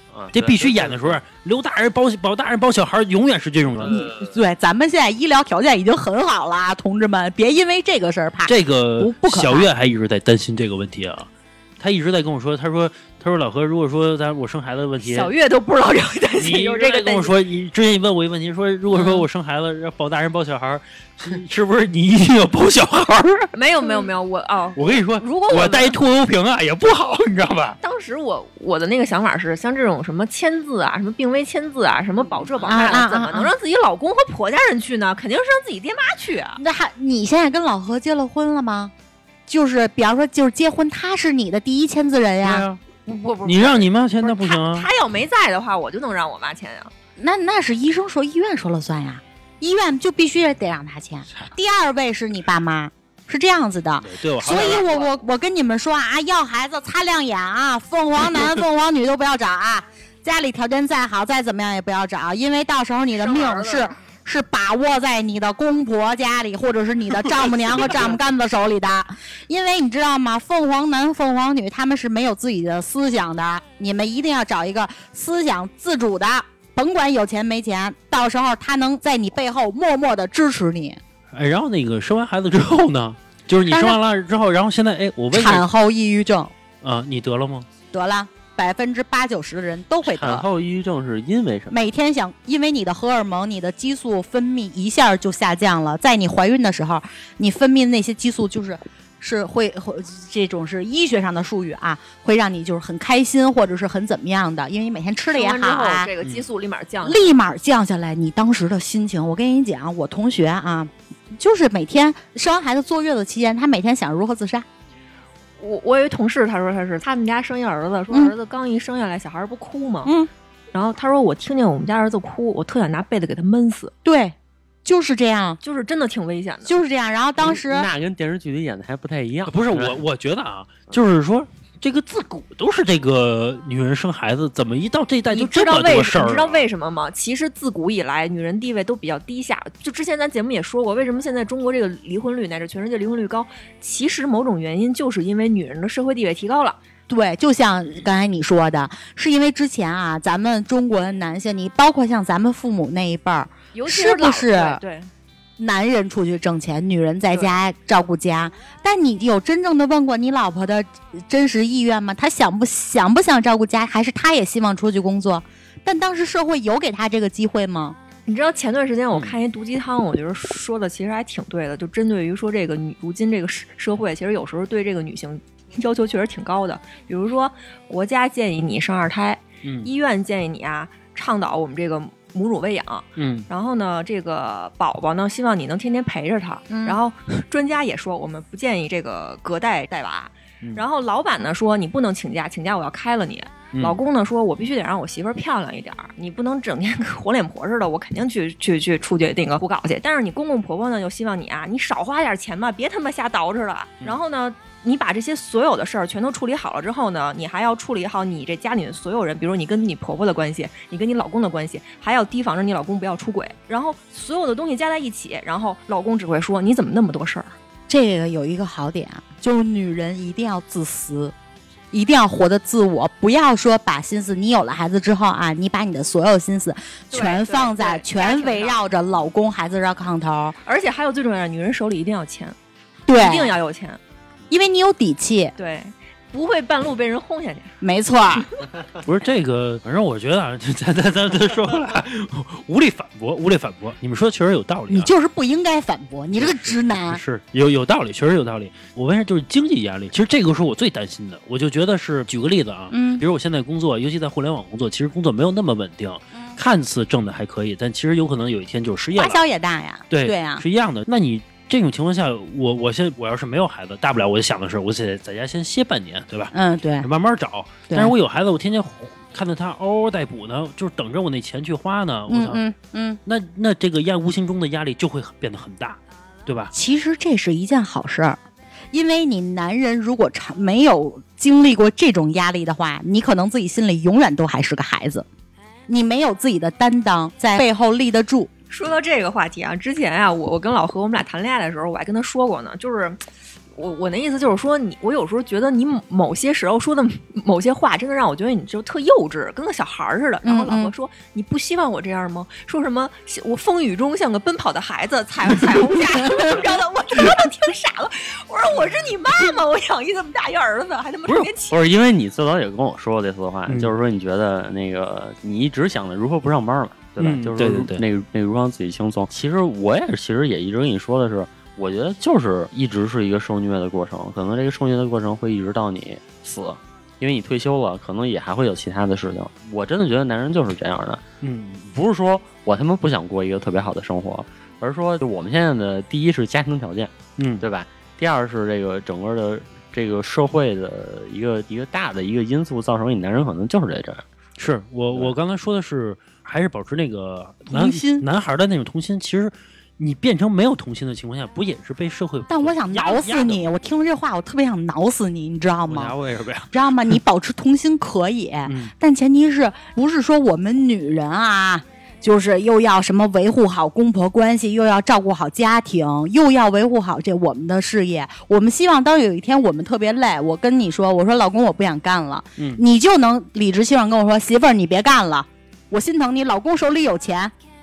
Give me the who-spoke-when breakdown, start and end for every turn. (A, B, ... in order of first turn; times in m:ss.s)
0:00.1-0:01.2 A
0:00.3-0:04.0 B
0:03.7-0:04.4 A
0:03.9-0:09.7 C
0:08.5-0:15.3 B
0:15.0-0:17.3 D
0:16.4-0:23.5 B
0:23.5-0:26.0 D
0:24.8-0:27.8 B
0:27.8-0:36.6 D
0:32.6-0:33.5 C
0:36.6-0:38.9 C
0:39.5-0:42.7 C
0:42.4-0:42.8 B
0:43.0-0:46.9 D
0:43.4-0:44.9 B
0:47.2-1:21.0 C
0:54.0-0:54.9 B
0:54.5-0:55.1 D
1:03.2-1:03.9 D
1:21.3-1:25.6 B
1:23.7-1:24.0 C
1:25.3-1:26.5 C
1:26.8-1:27.7 B
1:27.9-1:30.5 C
1:30.0-1:31.9 A
1:31.7-1:46.1 C
1:45.3-1:47.3 D
1:47.0-1:54.7 C
1:55.6-2:00.1 D
2:00.0-2:00.3 C
2:00.7-2:03.9 D
2:04.0-2:05.6 C
2:05.6-2:06.8 D
2:06.7-2:07.9 C
2:07.4-2:10.0 A
2:09.5-2:16.6 B
2:15.3-2:26.8 D
2:27.1-2:34.8 C
2:33.7-2:35.1 D
2:35.6-2:48.0 C
2:48.3-3:37.6 D
2:49.1-2:49.4 B
2:59.6-2:59.9 B
3:03.2-3:03.5 B
3:06.7-3:07.0 C
3:13.7-3:14.0 B
3:37.9-3:41.3 C
3:41.9-3:50.6 C
3:47.1-3:48.8 D
3:50.6-3:52.6 D
3:53.1-3:53.6 C
3:53.1-3:54.0 D
3:54.5-3:55.5 C
3:55.6-3:57.7 D
3:57.8-3:58.5 C
3:59.0-4:05.1 B
4:04.9-4:07.2 C
4:06.4-4:19.4 B
4:12.9-4:13.2 C
4:19.1-4:20.6 C
4:20.1-4:32.6 B
4:26.5-4:27.1 C
4:27.9-4:28.2 C
4:32.3-4:33.2 C
4:33.3-4:36.7 B
4:36.7-4:38.4 C
4:38.9-4:45.3 C
4:45.9-4:48.5 C
4:48.7-4:53.2 D
4:53.8-5:11.8 D
5:00.4-5:00.9 C
5:11.7-5:31.2 A
5:17.2-5:18.0 B
5:31.4-5:31.9 B
5:31.9-5:44.2 A
5:37.4-5:37.6 B
5:44.6-5:53.6 B
5:47.7-5:48.3 C
5:52.5-5:56.2 C
5:55.9-5:57.1 B
5:56.7-6:17.5 C
5:58.7-5:58.9 B
6:12.6-6:12.8 B